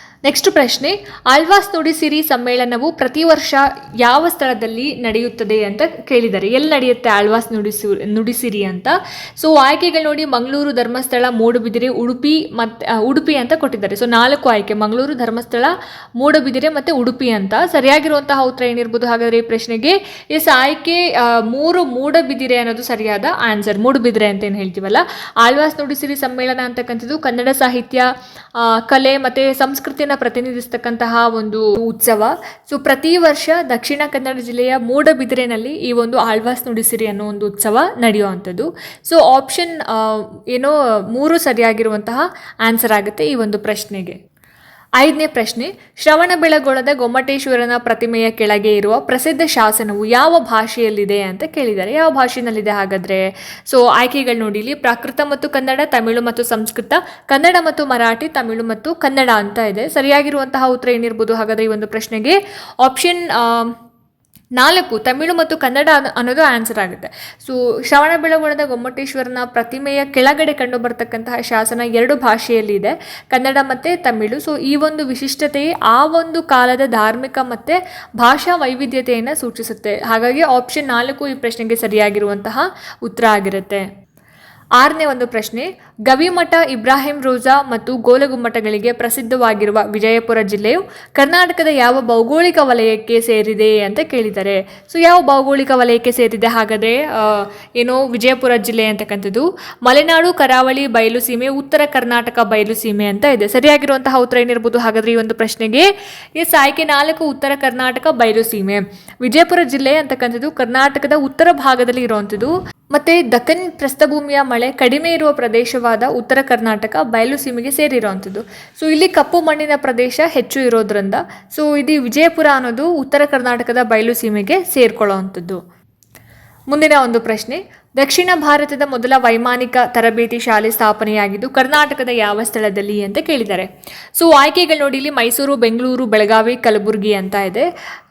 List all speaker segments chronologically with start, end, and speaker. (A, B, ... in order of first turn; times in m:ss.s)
0:00.3-0:44.2 A
0:45.0-1:03.8 A
1:04.6-1:23.8 A
1:24.8-2:05.6 A
2:06.7-2:17.7 A